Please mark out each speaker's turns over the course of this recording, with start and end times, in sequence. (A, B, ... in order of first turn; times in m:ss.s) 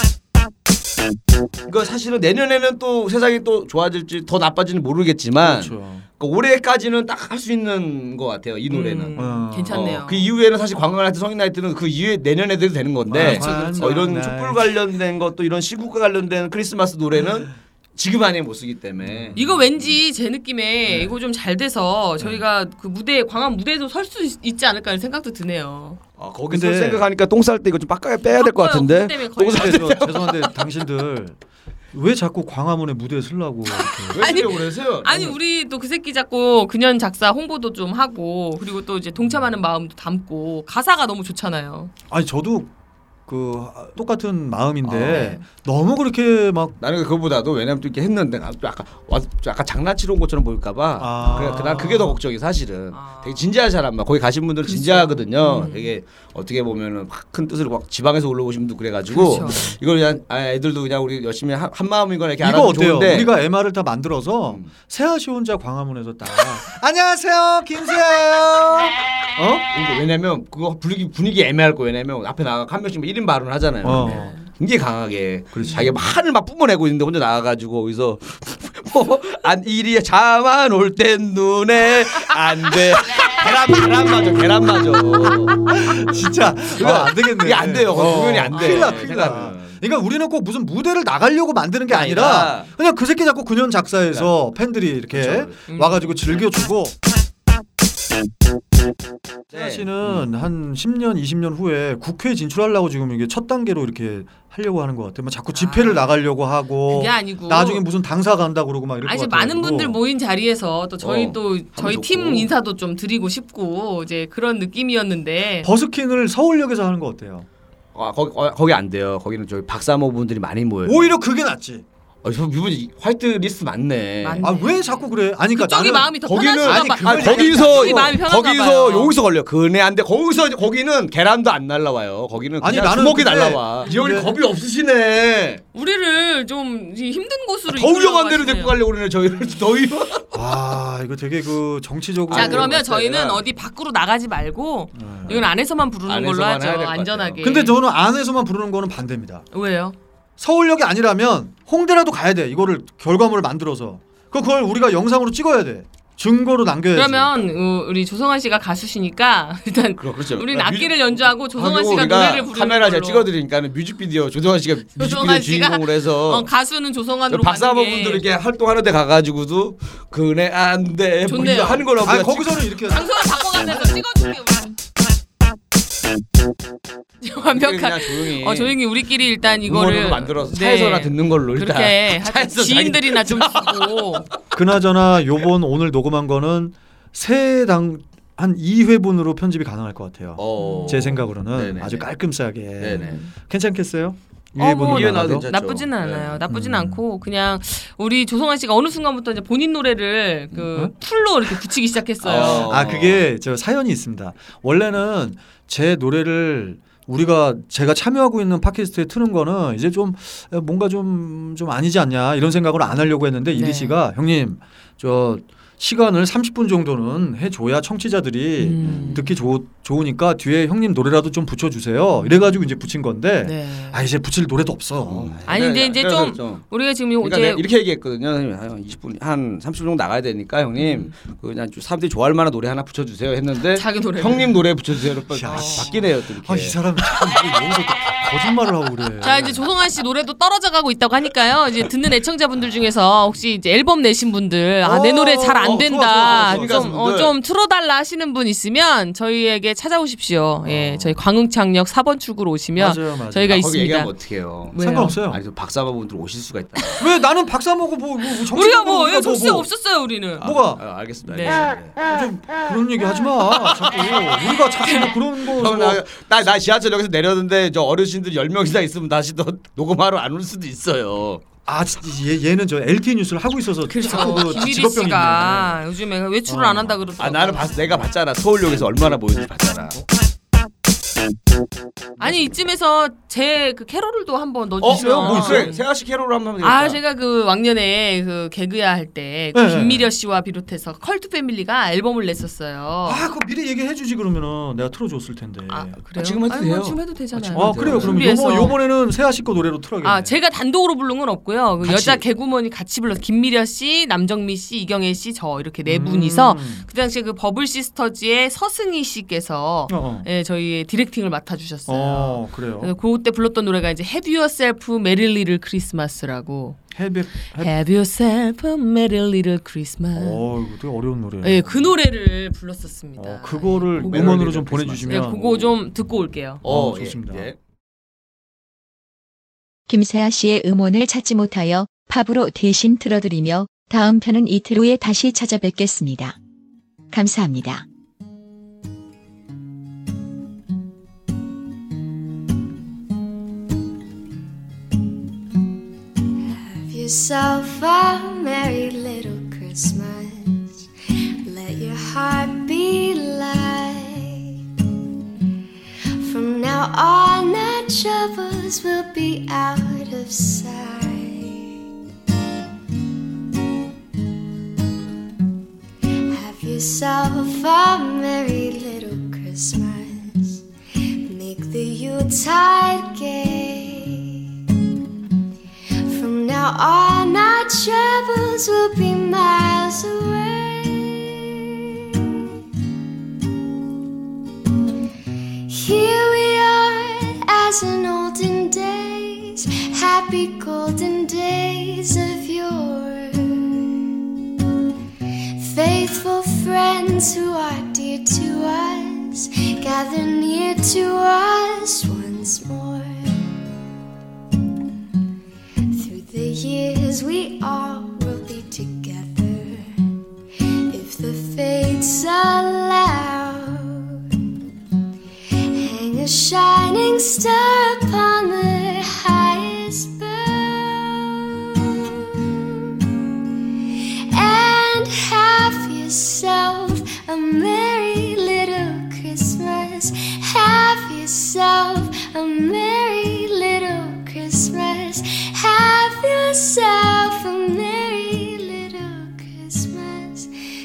0:01.7-0:20.0 A
0:05.4-0:06.0 B
0:08.7-0:10.3 C
0:09.2-0:09.8 B
0:13.1-0:14.7 B
0:13.2-0:14.0 C
0:19.0-0:19.7 B
0:19.4-0:26.0 C
0:20.9-0:21.1 B
0:26.2-0:30.5 A
0:26.5-0:27.0 B
0:28.2-0:29.8 C
0:29.5-0:31.4 B
0:31.9-0:34.4 B
0:33.8-0:41.9 C
0:34.1-0:35.4 A
0:42.1-0:42.7 B
0:43.3-0:46.8 B
0:44.8-0:45.3 A
0:45.1-0:45.4 C
0:46.8-1:03.4 A
0:51.0-0:52.2 B
0:52.9-0:53.5 C
0:54.6-0:56.0 C
0:59.1-0:59.7 C
0:59.3-0:59.8 B
1:02.4-1:09.6 B
1:09.7-1:25.6 A
1:13.8-1:14.3 B
1:13.9-1:14.5 C
1:15.5-1:15.9 B
1:25.3-1:36.9 B
1:26.7-1:29.8 A
1:28.5-1:29.1 C
1:31.9-1:32.7 A
1:35.1-1:35.6 A
1:35.7-1:36.2 C
1:39.5-1:40.3 A
1:39.5-1:50.0 B
1:45.5-1:46.2 C
1:46.9-1:47.8 C
1:49.0-1:55.7 C
1:51.0-1:52.5 A
1:55.6-1:57.5 B
1:57.9-2:01.1 A
2:00.8-2:01.8 B
2:02.2-2:04.5 A
2:04.2-2:09.1 C
2:04.4-2:08.2 B
2:06.2-2:15.6 A
2:12.6-2:14.4 B
2:15.7-2:18.8 C
2:17.7-2:20.6 A
2:20.3-2:22.8 B
2:22.3-2:23.5 A
2:22.3-2:27.8 C
2:24.9-2:25.5 B
2:26.1-2:27.7 A
2:27.4-2:29.4 B
2:29.5-2:30.0 C
2:30.4-2:37.3 B
2:36.9-2:43.3 C
2:40.0-2:46.5 A
2:44.9-2:48.2 C
2:47.3-2:52.6 A
2:51.2-2:51.9 C
2:52.0-2:54.0 B
2:52.8-2:54.7 C
2:57.2-3:04.3 C
2:57.4-2:58.8 A
2:59.4-3:04.2 A
3:04.5-3:15.5 B
3:10.4-3:12.0 A
3:10.6-3:11.2 C
3:12.8-3:13.2 A
3:13.0-3:13.3 C
3:14.6-3:22.8 C
3:14.8-3:16.4 A
3:16.5-3:17.0 B
3:22.2-3:23.3 A
3:22.3-3:45.6 B
3:33.5-3:34.0 C
3:38.6-3:39.3 C
3:42.2-3:42.6 C
3:43.4-3:44.0 C
3:45.0-3:46.7 A
3:45.5-3:47.6 C
3:47.2-3:56.8 A
3:50.8-3:51.1 C
3:53.7-3:54.6 C
3:55.3-3:59.6 B
3:55.5-3:55.9 C
3:59.2-4:14.1 C
4:04.8-4:06.9 B
4:05.7-4:07.4 A
4:10.6-4:11.2 B
4:12.8-4:13.7 B
4:13.6-4:17.1 A
4:14.6-4:15.2 C
4:14.8-4:15.4 B
4:17.0-4:19.7 B
4:18.4-4:20.5 C
4:20.4-4:22.0 A
4:20.4-4:20.8 B
4:21.2-4:21.7 C
4:22.1-4:26.0 B
4:24.8-4:25.1 C
4:25.4-4:31.4 A
4:31.6-4:35.8 B
4:33.9-4:37.9 C
4:34.0-4:34.6 A
4:36.5-4:37.0 B
4:37.2-4:40.0 A
4:42.2-4:45.8 C
4:44.8-4:47.0 A
4:44.8-4:45.7 B
4:46.6-4:53.2 C
4:49.5-4:50.1 B
4:53.0-4:56.0 B
4:55.7-4:58.8 C
4:56.2-4:58.4 A
4:57.5-5:00.4 B
5:00.0-5:16.8 C
5:01.8-5:02.2 A
5:05.8-5:06.8 B
5:09.9-5:10.3 B
5:11.9-5:12.9 B
5:16.9-5:17.7 B
5:17.5-5:20.4 C
5:20.1-5:21.9 B
5:21.4-5:24.3 C
5:23.2-5:25.6 B
5:23.9-5:25.7 A
5:25.1-5:26.6 C
5:26.6-5:27.6 A
5:26.6-5:27.5 B
5:29.9-5:36.4 D
5:37.1-5:37.8 D
5:46.5-5:50.9 E
5:51.4-5:54.6 E
5:56.2-6:01.8 E
6:06.3-6:14.6 E
6:16.0-6:22.4 E
6:25.6-6:34.1 E
6:35.5-6:43.5 E
6:45.9-6:50.2 E
6:50.9-6:54.3 E
6:55.6-7:03.1 E
7:04.3-7:20.5 E